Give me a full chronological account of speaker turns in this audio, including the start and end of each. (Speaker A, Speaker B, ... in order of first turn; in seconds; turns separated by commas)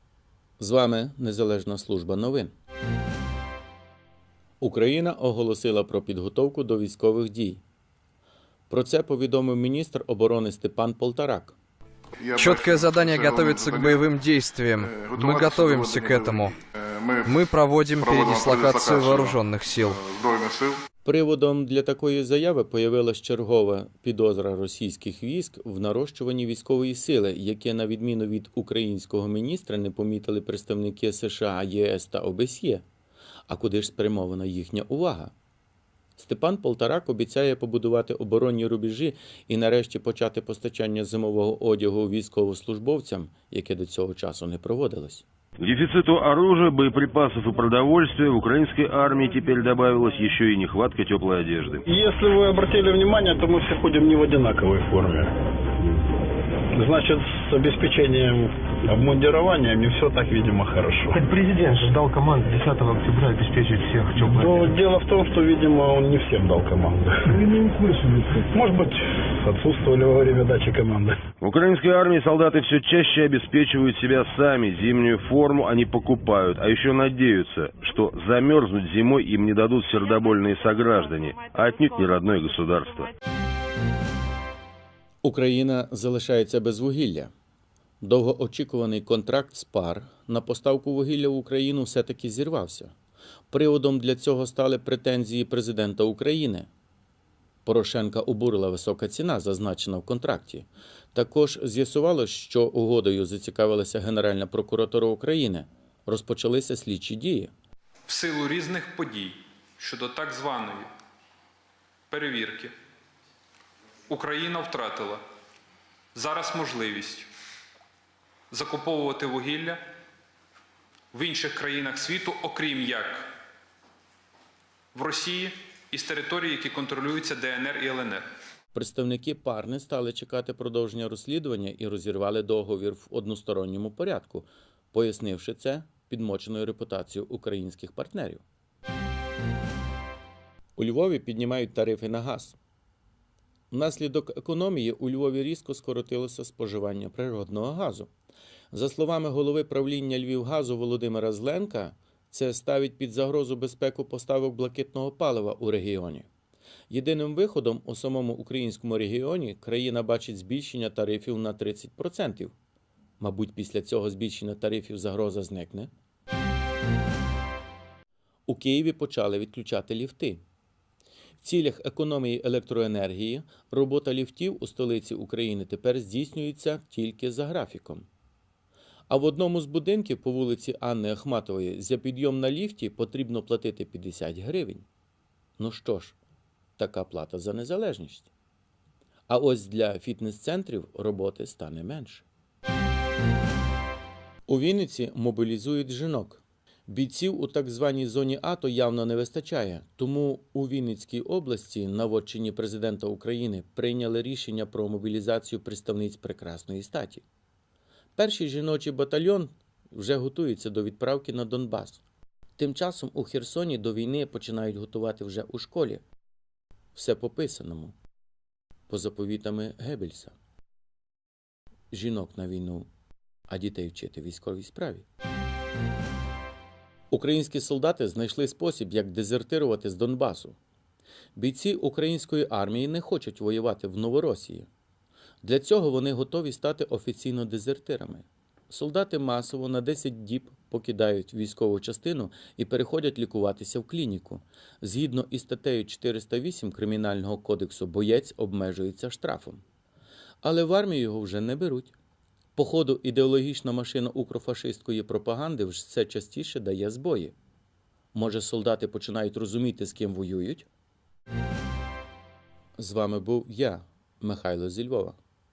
Speaker A: 0.6-2.5, Speaker A: 4.6-7.6, Speaker A: 8.7-11.6, Speaker B: 12.2-14.1, Speaker C: 12.4-16.6, Speaker B: 14.8-20.8, Speaker C: 17.2-20.0, Speaker A: 21.0-32.9, Speaker A: 33.5-35.3, Speaker A: 36.2-45.2, Speaker D: 45.6-51.8, Speaker E: 51.9-55.3, Speaker E: 56.7-61.2, Speaker F: 61.2-64.8, Speaker E: 64.2-67.2, Speaker F: 67.4-68.4, Speaker E: 68.5-71.2, Speaker D: 71.4-83.1, Speaker A: 85.2-87.3, Speaker A: 88.0-92.9, Speaker A: 93.5-96.7, Speaker A: 97.7-107.5, Speaker G: 108.1-110.9, Speaker G: 112.1-112.7, Speaker G: 114.1-115.2, Speaker G: 116.2-117.3, Speaker G: 118.5-119.8, Speaker G: 121.1-123.2, Speaker G: 125.0-128.3, Speaker A: 128.7-138.4, Speaker A: 140.8-142.6, Speaker A: 143.7-148.1, Speaker A: 148.7-156.3, Speaker A: 156.9-162.6, Speaker A: 163.2-165.9, Speaker A: 168.5-170.4, Speaker A: 171.4-178.1, Speaker A: 179.1-184.8, Speaker A: 185.6-186.2, Speaker A: 186.8-188.3, Speaker A: 189.3-192.2, Speaker A: 194.5-207.2, Speaker A: 208.2-212.0, Speaker A: 212.6-216.0, Speaker A: 216.9-217.9, Speaker A: 218.9-220.3, Speaker A: 221.9-222.9, Speaker A: 223.5-225.1, Speaker A: 227.1-230.6, Speaker A: 231.4-234.7, Speaker A: 235.4-249.6, Speaker A: 250.4-251.9, Speaker A: 252.6-257.4, Speaker A: 258.1-260.7, Speaker A: 262.8-265.2